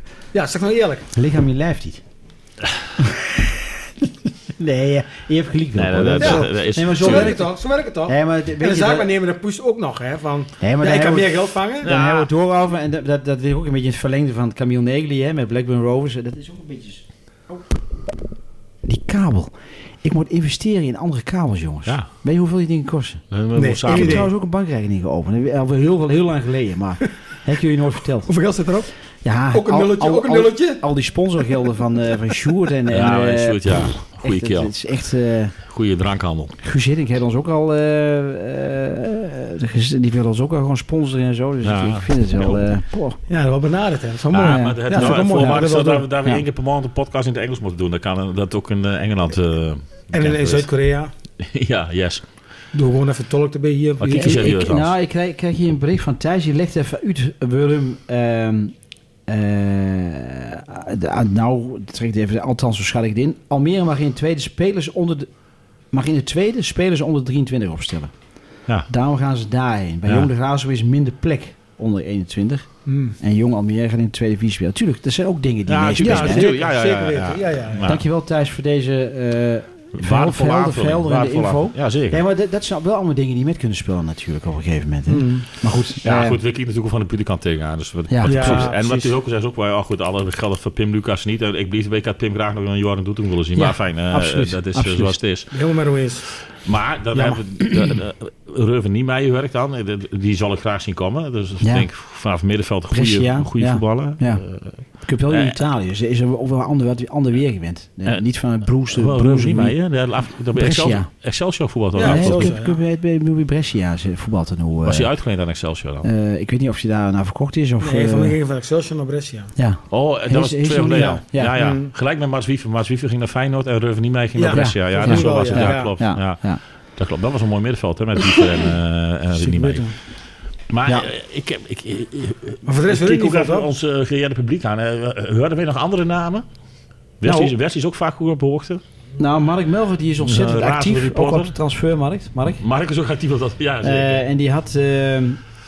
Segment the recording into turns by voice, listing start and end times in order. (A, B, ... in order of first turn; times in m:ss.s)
0:00.3-0:01.1 A
0:01.1-0:02.0 B
0:04.6-0:07.5 B
0:05.7-0:07.4 C
0:06.2-0:11.9 A
0:08.1-0:09.1 B
0:10.6-0:17.7 B
0:11.8-0:12.3 C
0:18.8-0:23.2 B
0:23.3-0:24.3 C
0:23.5-0:24.3 A
0:23.8-0:28.3 B
0:28.2-0:28.9 A
0:29.2-0:35.5 B
0:29.5-0:30.8 A
0:32.9-0:34.7 C
0:35.7-0:36.6 C
0:36.6-0:43.2 B
0:41.6-0:42.7 C
0:43.3-0:46.0 A
0:44.3-0:50.7 C
0:44.3-0:45.7 B
0:50.1-0:51.1 A
0:51.4-0:52.2 C
0:52.7-0:54.5 A
0:54.0-0:54.9 C
0:54.1-0:58.7 B
0:59.3-1:05.3 B
1:05.9-1:08.1 B
1:08.9-1:16.5 B
1:12.8-1:13.1 A
1:15.7-1:18.0 C
1:16.0-1:17.9 A
1:17.8-1:26.4 B
1:20.0-1:22.2 C
1:25.1-1:25.4 A
1:26.0-1:35.5 C
1:28.1-1:28.7 B
1:28.2-1:29.1 A
1:33.5-1:35.2 B
1:35.5-1:36.2 A
1:36.5-1:45.6 C
1:37.1-1:38.0 B
1:41.6-1:41.9 B
1:42.9-1:44.4 B
1:45.0-1:49.8 B
1:48.0-1:52.6 C
1:50.5-1:51.1 B
1:51.9-1:52.8 A
1:52.0-1:55.1 B
1:54.8-1:56.1 C
1:56.0-1:58.4 B
1:57.8-1:59.5 A
1:59.6-2:01.6 B
1:59.9-2:09.9 C
2:01.6-2:01.9 A
2:04.4-2:05.9 A
2:04.5-2:06.6 B
2:09.4-2:09.9 A
2:10.7-2:16.4 C
2:12.6-2:13.7 A
2:17.2-2:18.8 C
2:17.2-2:17.5 B
2:19.2-2:22.6 B
2:20.2-2:21.5 C
2:22.6-2:24.2 C
2:23.8-2:25.4 B